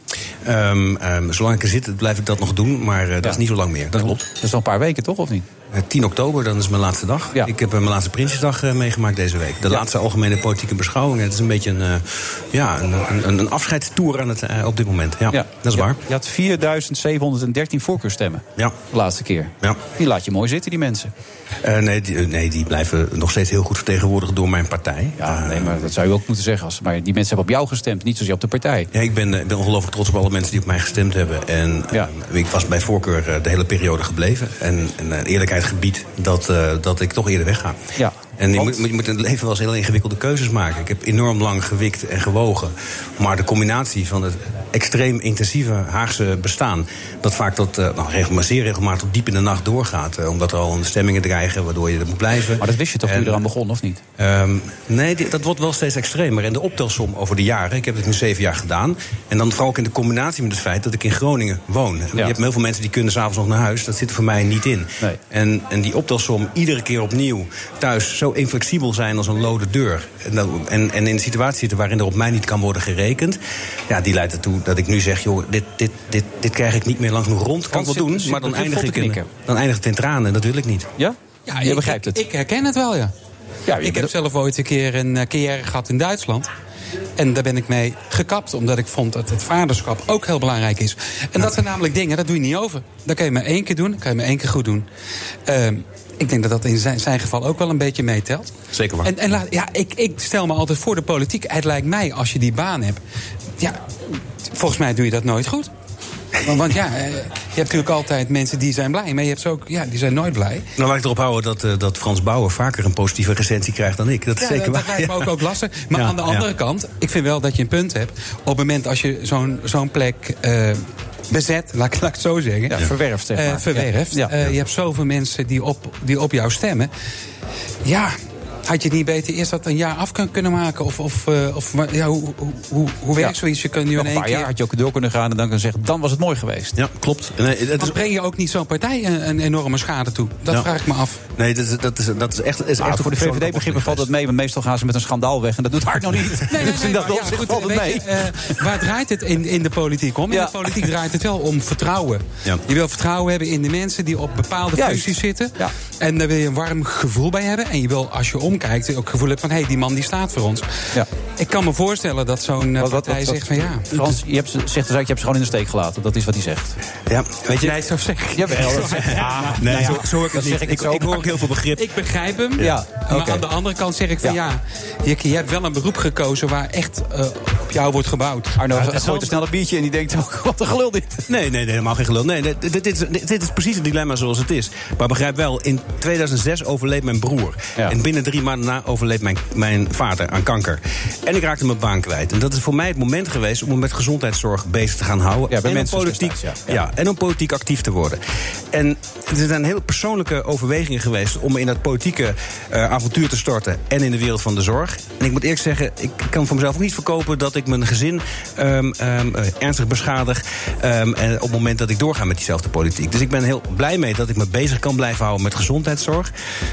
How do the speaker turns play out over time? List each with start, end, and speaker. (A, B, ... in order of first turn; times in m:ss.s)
0:00.4-0:04.2 A
0:04.2-0:05.5 B
0:05.7-0:16.0 A
0:15.3-0:21.1 B
0:21.6-0:25.8 A
0:25.2-0:28.9 B
0:28.9-0:37.8 A
0:38.0-0:38.8 B
0:38.4-0:53.4 A
0:52.6-0:54.0 B
0:54.2-1:20.9 A
1:17.7-1:19.3 B
1:21.0-1:22.2 B
1:21.5-1:23.1 C
1:23.7-1:24.1 B
1:23.8-1:26.5 C
1:27.2-1:34.8 C
1:35.5-1:38.5 C
1:38.7-1:39.1 A
1:39.0-1:43.0 C
1:44.5-1:45.7 C
1:46.4-1:50.7 C
1:50.8-1:55.3 A
1:54.4-2:02.8 C
1:55.9-1:56.4 A
2:02.7-2:04.3 B
2:03.3-2:06.9 C
2:07.8-2:08.1 C
2:08.6-2:14.5 C
2:13.9-2:16.8 B
2:16.8-2:18.0 A
2:17.8-2:21.2 C
2:21.4-2:24.0 A
2:22.8-2:28.3 B
2:26.4-2:40.8 C
2:30.3-2:30.8 B
2:34.7-2:35.7 B
2:41.4-2:44.0 C
2:42.8-2:46.8 B
2:47.1-2:47.7 A
2:47.6-2:50.8 C
2:48.3-2:51.3 B
2:49.6-2:51.8 A
2:51.8-2:59.3 C
2:52.6-2:53.4 B
2:58.6-3:01.3 B
3:01.3-3:18.2 A
3:15.5-3:16.8 B
3:18.7-3:36.3 A